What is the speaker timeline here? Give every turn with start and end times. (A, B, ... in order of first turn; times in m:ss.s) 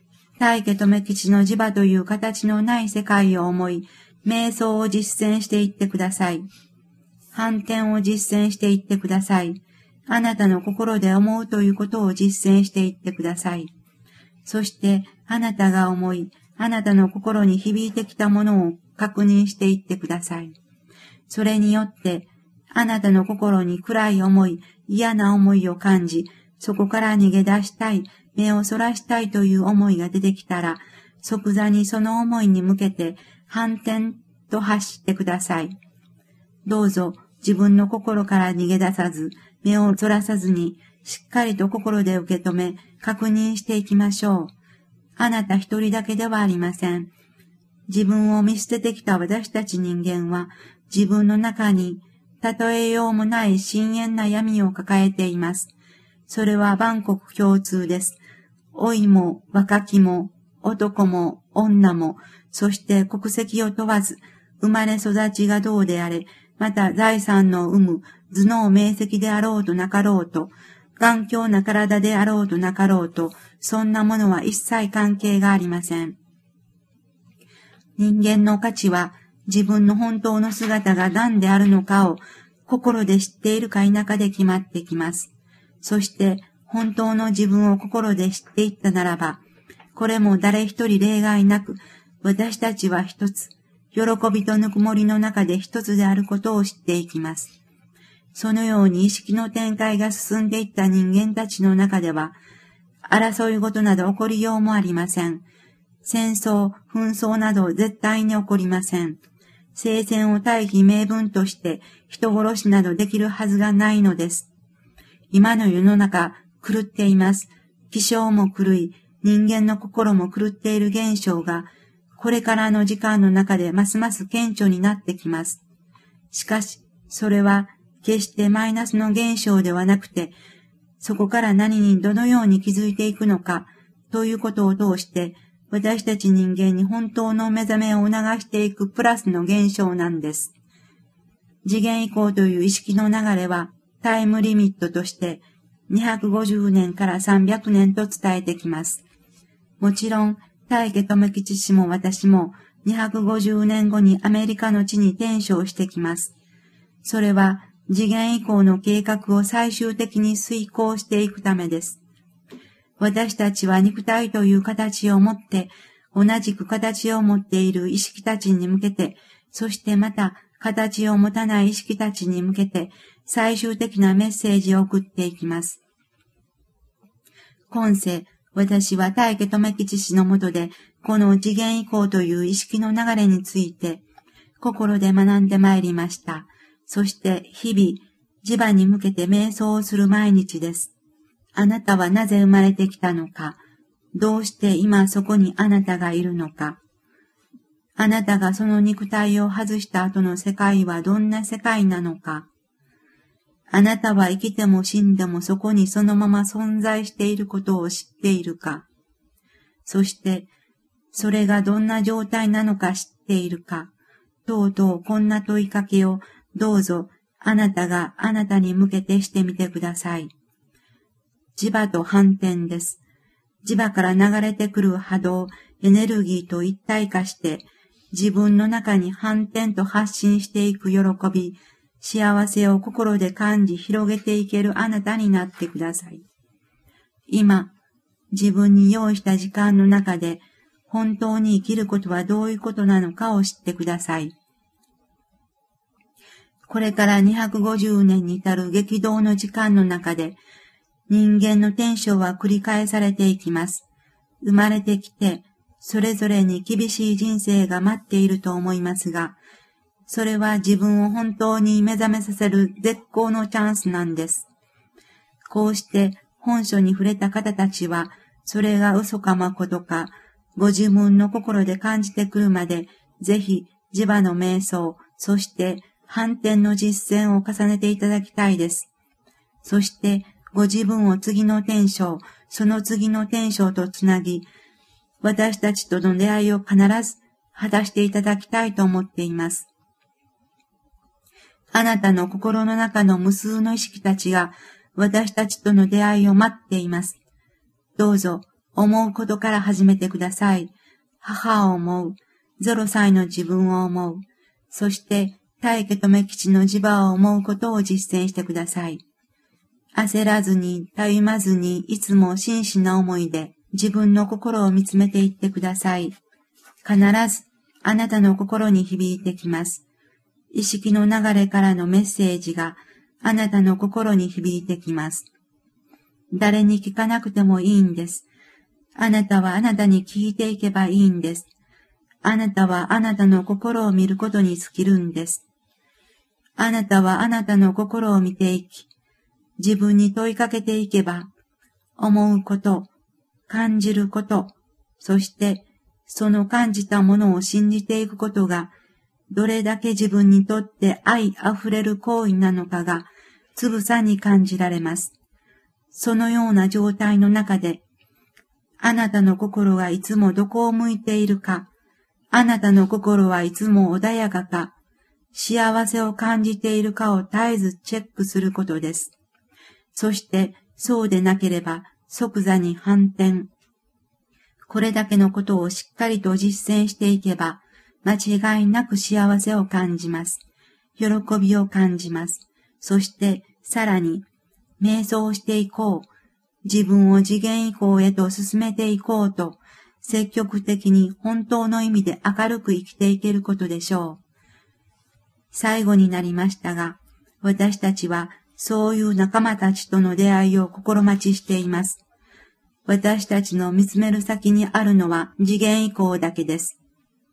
0:00.4-0:06.5 A
0:07.3-0:13.7 A
0:14.4-0:20.6 A
0:21.3-0:35.8 A
0:36.6-0:44.5 A
0:45.2-0:47.1 A
0:47.9-0:55.7 A
0:56.3-0:58.2 A
0:58.7-1:16.2 A
1:18.0-1:25.3 A
1:25.8-1:29.4 A
1:29.9-1:37.6 A
1:38.3-1:42.4 A
1:43.0-1:45.4 A
1:46.0-1:49.2 A
1:49.7-1:54.5 A
1:55.3-2:05.6 A
2:06.3-2:10.4 A
2:11.0-2:20.5 A
2:21.6-2:29.0 A
2:29.8-2:36.3 A
2:37.0-2:42.0 A
2:43.0-2:55.8 A
2:57.7-3:04.0 A
3:04.6-3:10.9 A
3:11.6-3:13.6 A
3:14.1-3:16.8 A
3:18.0-3:22.5 A
3:23.7-3:28.8 A
3:29.8-3:30.5 A
3:31.1-3:33.9 A
3:34.5-3:40.3 A
3:41.6-3:43.0 A
3:43.6-3:56.2 A
3:57.3-3:57.7 A
3:58.3-4:04.4 A
4:06.7-4:10.4 A
4:11.1-4:13.8 A
4:14.4-4:19.4 A
4:20.1-4:24.5 A
4:25.5-4:38.9 A
4:39.6-4:44.5 A
4:45.2-4:49.7 A
4:51.7-4:57.2 A
4:58.0-5:09.0 A
5:10.0-5:16.2 A
5:16.8-5:19.8 A
5:20.5-5:25.3 A
5:26.3-5:28.3 A
5:29.0-5:31.5 A
5:32.2-5:35.4 A
5:36.6-5:38.9 A
5:39.6-5:41.3 A
5:42.0-5:42.9 A
5:43.5-5:48.7 A
5:49.3-5:55.2 A
5:55.9-5:57.8 A
5:58.8-6:01.7 A
6:02.3-6:04.7 A
6:05.3-6:09.1 A
6:09.9-6:13.5 A
6:14.7-6:20.4 A
6:21.0-6:24.3 A
6:24.8-6:26.1 A
6:26.6-6:34.2 A
6:35.5-6:42.0 A
6:42.9-6:46.8 A